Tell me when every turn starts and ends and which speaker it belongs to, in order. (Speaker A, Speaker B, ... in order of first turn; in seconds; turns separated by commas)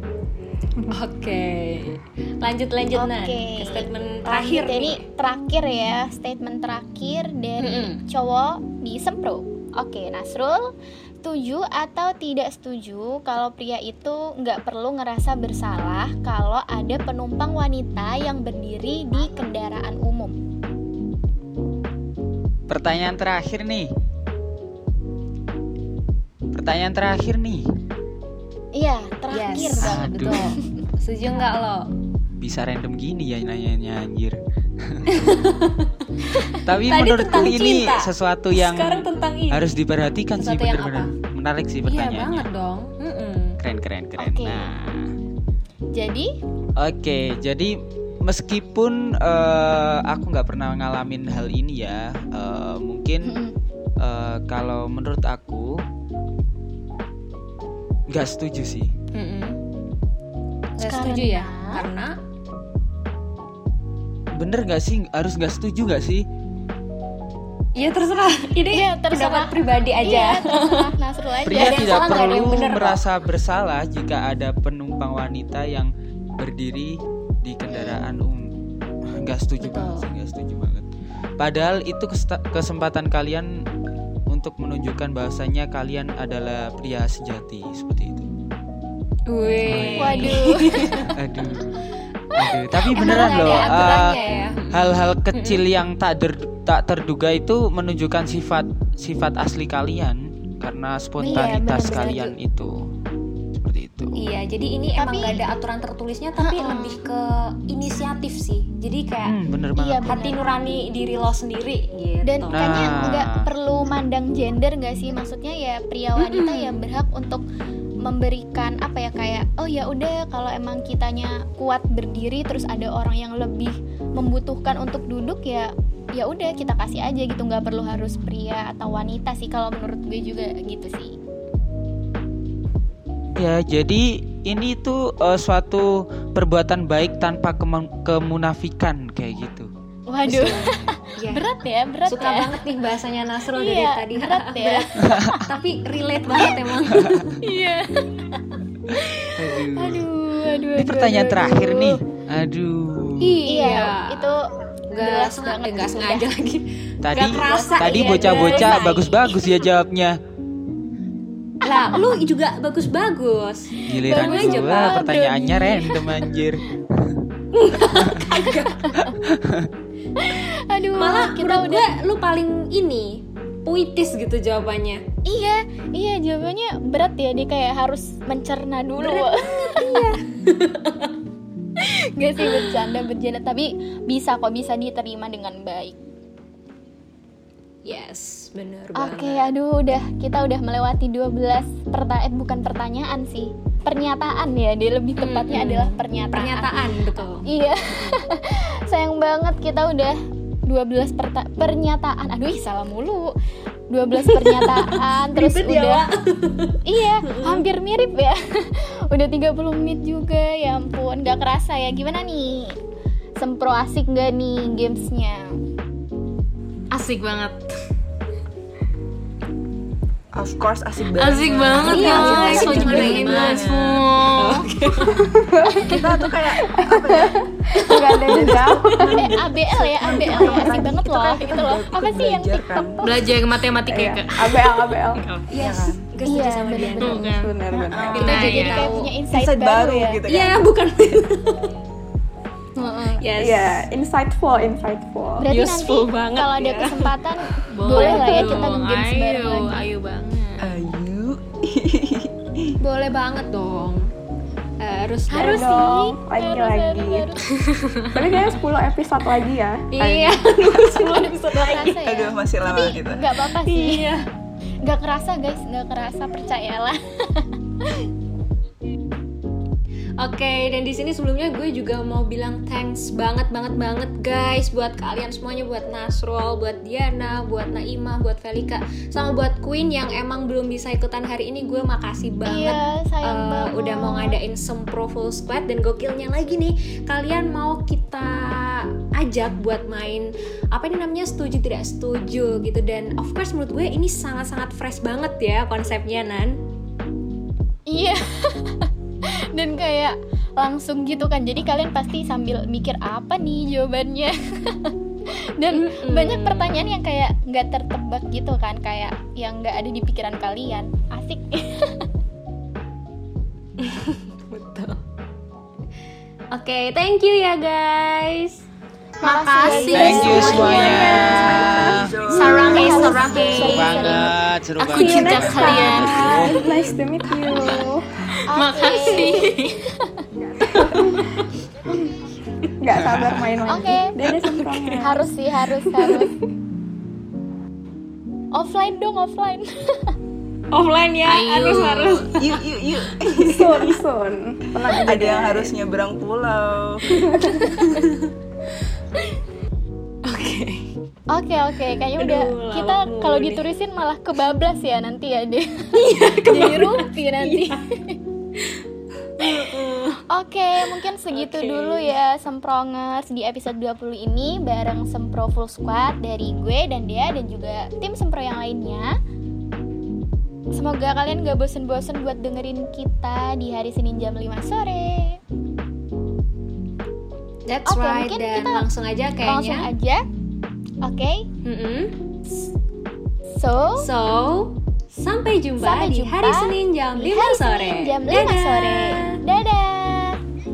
Speaker A: 0.9-5.0, Speaker B: 2.9-10.7, Speaker A: 7.6-8.0, Speaker B: 11.2-20.4, Speaker C: 22.7-23.9, Speaker C: 26.5-27.6, Speaker B: 28.7-30.7, Speaker A: 29.3-31.9, Speaker C: 29.8-30.6, Speaker C: 32.4-35.1, Speaker A: 35.1-39.7, Speaker C: 36.6-42.5, Speaker A: 40.4-41.1, Speaker A: 41.8-43.6, Speaker C: 43.6-45.1, Speaker B: 44.2-44.7, Speaker B: 45.9-46.3, Speaker C: 46.8-53.4, Speaker B: 53.2-53.5, Speaker C: 54.0-55.8, Speaker C: 58.1-58.9, Speaker A: 59.1-59.6, Speaker A: 60.8-62.1, Speaker B: 60.8-61.9, Speaker C: 64.4-66.2, Speaker A: 67.8-70.9, Speaker B: 68.7-72.6, Speaker C: 71.5-78.5, Speaker A: 71.5-73.0, Speaker C: 79.1-83.5, Speaker A: 79.6-80.1, Speaker C: 84.3-88.3, Speaker A: 89.3-91.1, Speaker C: 89.6-90.5, Speaker B: 90.0-91.0, Speaker C: 91.1-91.8, Speaker C: 92.3-94.1, Speaker A: 92.9-95.6, Speaker B: 92.9-94.4, Speaker C: 94.7-102.9, Speaker B: 101.2-102.3, Speaker A: 101.3-102.3, Speaker C: 103.6-104.2, Speaker A: 104.1-109.4, Speaker B: 104.9-105.4, Speaker B: 106.4-107.0, Speaker C: 109.2-110.1, Speaker B: 109.8-110.4, Speaker A: 110.0-113.0, Speaker B: 112.2-117.4, Speaker C: 112.5-113.5, Speaker A: 116.2-116.8, Speaker B: 118.0-131.2, Speaker C: 133.3-139.7, Speaker B: 140.1-142.6, Speaker C: 140.2-140.5, Speaker A: 140.3-141.5, Speaker A: 142.0-147.4, Speaker B: 143.5-145.5, Speaker C: 145.1-145.3, Speaker B: 146.3-146.7, Speaker C: 146.9-147.2, Speaker B: 147.4-152.0, Speaker C: 149.3-150.1, Speaker C: 150.7-153.4, Speaker A: 153.2-154.4, Speaker B: 153.4-156.3, Speaker A: 154.9-159.4, Speaker C: 157.0-160.2, Speaker B: 157.2-159.3, Speaker A: 161.6-165.2, Speaker B: 161.7-162.1, Speaker C: 163.9-167.2, Speaker B: 163.9-166.2, Speaker A: 167.5-168.9, Speaker C: 167.8-169.7, Speaker B: 168.3-169.1, Speaker B: 170.2-171.9, Speaker A: 170.9-175.0, Speaker B: 175.2-180.2, Speaker A: 179.0-181.1, Speaker B: 181.8-186.0, Speaker A: 182.4-182.9, Speaker A: 187.8-189.5, Speaker B: 189.0-203.3, Speaker A: 195.2-198.2, Speaker B: 203.9-206.1, Speaker A: 204.2-207.6, Speaker B: 206.8-212.8, Speaker B: 213.4-215.5, Speaker D: 216.9-217.7, Speaker E: 220.3-224.0, Speaker D: 221.2-224.7, Speaker A: 221.8-223.7, Speaker A: 224.4-225.4, Speaker F: 225.1-229.3, Speaker E: 225.7-233.0, Speaker A: 227.8-228.4, Speaker B: 229.0-233.3, Speaker F: 230.2-230.7, Speaker D: 233.0-235.5, Speaker F: 233.8-235.2, Speaker A: 235.5-237.4, Speaker E: 235.6-236.0, Speaker B: 236.2-237.3, Speaker D: 237.0-237.6, Speaker F: 237.2-238.3, Speaker E: 237.7-238.7, Speaker D: 238.2-238.9, Speaker A: 238.2-239.1, Speaker B: 238.2-240.2, Speaker E: 239.3-240.7, Speaker A: 240.2-241.7, Speaker B: 242.8-243.2, Speaker A: 243.2-243.9, Speaker F: 243.4-245.4, Speaker B: 245.4-249.8, Speaker A: 245.5-248.3, Speaker D: 247.7-250.8, Speaker E: 250.6-252.7, Speaker A: 252.8-254.1, Speaker A: 254.8-255.6, Speaker B: 255.3-257.4, Speaker F: 255.4-257.2, Speaker A: 257.5-257.8, Speaker D: 257.8-258.2, Speaker F: 258.1-261.0, Speaker A: 259.9-262.2, Speaker B: 261.0-264.1, Speaker E: 262.0-263.2, Speaker A: 263.4-264.2, Speaker B: 264.8-268.1, Speaker A: 270.2-296.6, Speaker B: 282.4-284.4, Speaker B: 297.9-298.9, Speaker B: 299.5-304.9, Speaker B: 305.6-312.0, Speaker A: 305.7-306.8, Speaker A: 313.8-315.0, Speaker A: 316.5-318.6, Speaker B: 319.2-321.3, Speaker D: 319.2-320.2, Speaker A: 319.3-321.2, Speaker C: 319.9-322.1, Speaker E: 320.1-323.1, Speaker F: 320.3-322.0, Speaker D: 322.4-323.6, Speaker A: 322.4-324.2, Speaker B: 322.6-324.3, Speaker C: 323.5-326.7, Speaker D: 324.8-326.3, Speaker A: 324.9-327.8, Speaker F: 324.9-328.0, Speaker D: 328.4-329.8, Speaker B: 328.5-329.5, Speaker F: 330.6-331.3, Speaker A: 330.8-331.4, Speaker F: 332.8-335.3, Speaker C: 332.9-333.6, Speaker B: 333.7-334.1, Speaker A: 334.2-335.1, Speaker B: 335.0-336.3, Speaker F: 335.9-336.4, Speaker B: 338.5-340.1, Speaker A: 340.7-342.6, Speaker D: 341.3-342.4, Speaker E: 342.4-343.9, Speaker F: 343.3-345.8, Speaker A: 343.7-343.9, Speaker E: 344.9-347.3, Speaker F: 347.1-347.6, Speaker B: 347.6-348.1, Speaker A: 347.6-348.3, Speaker A: 350.2-350.9, Speaker B: 351.3-358.2, Speaker A: 352.1-353.6, Speaker A: 355.9-357.9, Speaker A: 358.6-360.2, Speaker B: 359.4-359.7, Speaker B: 360.3-369.1, Speaker A: 360.8-362.1, Speaker B: 370.7-375.4, Speaker A: 377.7-379.9, Speaker B: 377.9-378.9, Speaker B: 379.4-380.2, Speaker B: 381.0-381.5, Speaker A: 381.6-382.3, Speaker B: 383.5-384.1, Speaker A: 384.0-389.4, Speaker B: 385.8-390.4